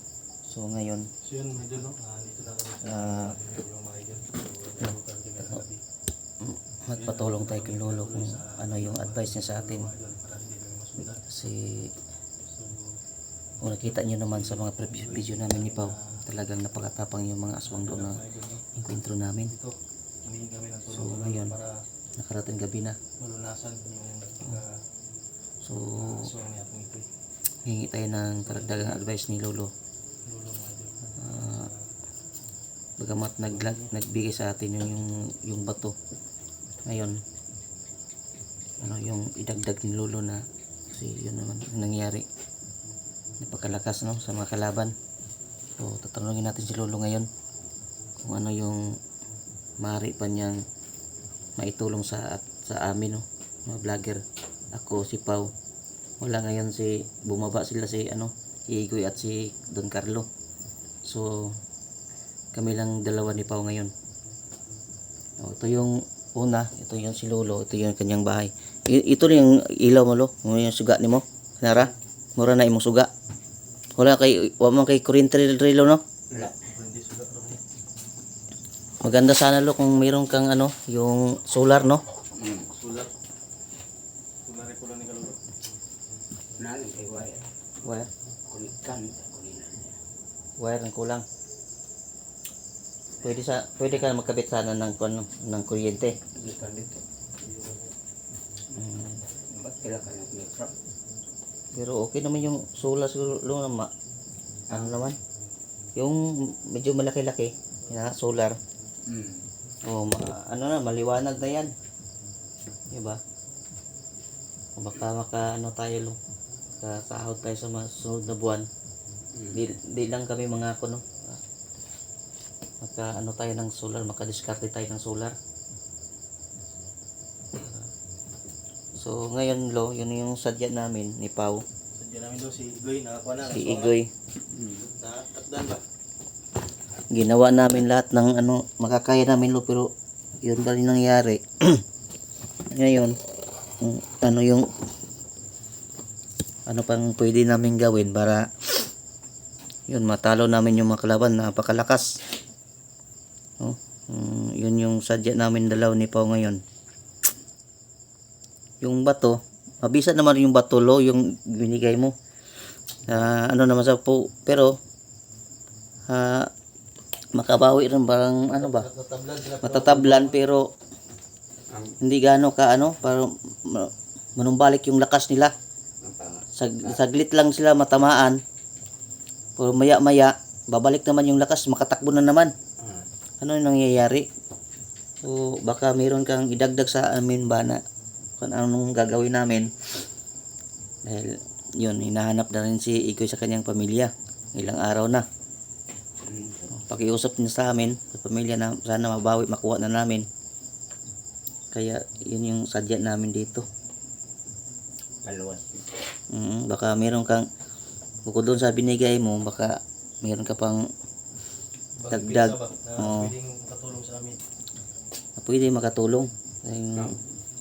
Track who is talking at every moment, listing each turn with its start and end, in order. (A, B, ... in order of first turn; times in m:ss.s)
0:00.5-0:01.1 A
0:01.2-0:05.8 B
0:02.8-0:03.3 A
0:06.4-0:09.9 A
0:06.9-0:11.2 B
0:11.2-0:11.9 A
0:12.5-0:13.0 B
0:13.6-0:18.2 A
0:13.8-0:16.2 B
0:17.6-0:18.8 B
0:18.7-0:19.5 A
0:19.5-0:21.8 B
0:20.9-0:21.5 A
0:22.2-0:23.0 A
0:23.2-0:24.8 B
0:25.6-0:26.3 A
0:25.9-0:27.1 B
0:27.6-0:29.7 A
0:28.4-0:29.0 B
0:30.2-0:31.8 B
0:31.2-0:31.6 A
0:33.0-0:35.9 A
0:33.4-0:33.9 B
0:36.8-0:37.2 A
0:38.8-0:42.2 A
0:43.4-0:44.9 A
0:45.8-0:47.3 A
0:48.2-0:48.8 A
0:49.8-0:50.6 A
0:51.6-0:54.2 A
0:54.7-0:55.5 A
0:56.2-1:00.2 A
1:01.0-1:01.6 A
1:02.5-1:03.9 A
1:05.4-1:13.1 A
1:14.0-1:16.0 A
1:16.5-1:17.6 B
1:19.0-1:22.0 A
1:22.4-1:22.7 C
1:22.7-1:23.1 B
1:24.4-1:25.4 B
1:26.6-1:27.4 C
1:27.8-1:28.1 A
1:28.5-1:30.0 C
1:30.6-1:31.2 A
1:33.2-1:36.2 A
1:36.3-1:37.0 C
1:38.7-1:39.2 A
1:39.5-1:40.7 C
1:41.7-1:43.9 A
1:44.7-1:45.0 C
1:44.7-1:45.2 A
1:46.0-1:48.6 A
1:49.1-1:49.4 C
1:49.8-1:51.7 A
1:52.9-1:53.2 A
1:54.8-1:56.2 A
1:56.8-1:58.6 A
1:59.3-1:59.6 C
1:59.5-2:01.4 A
2:02.8-2:05.4 A
2:09.0-2:11.6 A
2:12.0-2:13.9 B
2:13.4-2:14.1 A
2:14.5-2:14.9 C
2:14.8-2:15.8 B
2:17.1-2:19.9 A
2:20.4-2:21.8 A
2:22.7-2:23.2 A
2:23.8-2:24.6 A
2:26.7-2:28.8 A
2:29.9-2:32.2 A
2:33.6-2:36.6 A
2:38.8-2:42.1 A
2:43.1-2:44.8 A
2:46.1-2:46.5 A
2:47.3-2:48.8 A
2:48.5-2:50.4 B
2:49.6-2:50.7 A
2:51.7-2:51.9 C
2:52.0-2:55.5 A
2:56.0-2:57.0 C
2:56.5-2:58.4 A
2:59.6-3:02.5 A
3:02.8-3:03.1 C
3:03.4-3:04.3 A
3:05.2-3:07.8 A
3:08.4-3:09.7 A
3:11.0-3:15.2 A
3:16.2-3:16.7 C
3:16.7-3:20.2 A
3:21.7-3:23.6 A
3:25.2-3:25.9 C
3:26.3-3:27.4 A
3:28.2-3:30.9 A
3:32.0-3:34.4 B
3:32.1-3:33.3 A
3:35.4-3:37.1 A